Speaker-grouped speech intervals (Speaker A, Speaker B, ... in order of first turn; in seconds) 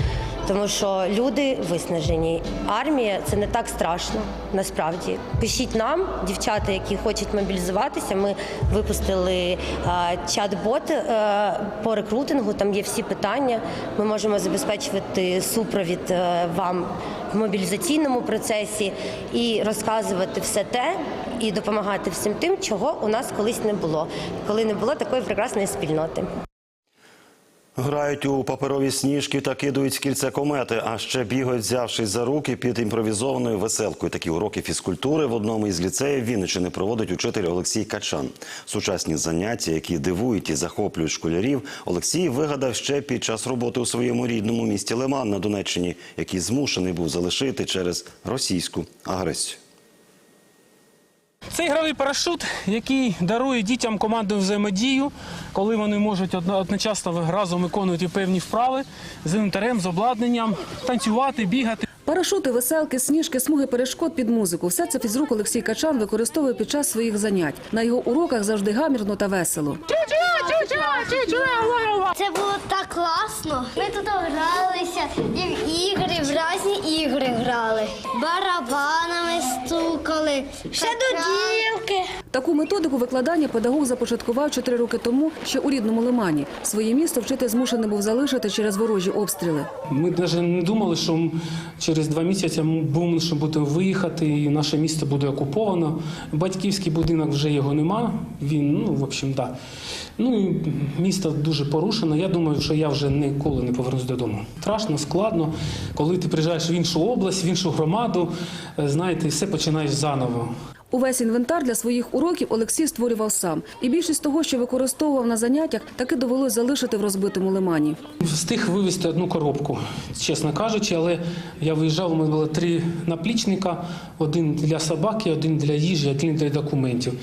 Speaker A: 0.5-26.3
Speaker B: 27.8-49.6
Speaker C: 51.5-61.8, 89.9-99.5, 100.2-110.5, 118.2-127.1
Speaker D: 62.1-69.8, 82.3-89.7, 110.9-118.0
Speaker E: 71.1-71.5, 72.2-82.0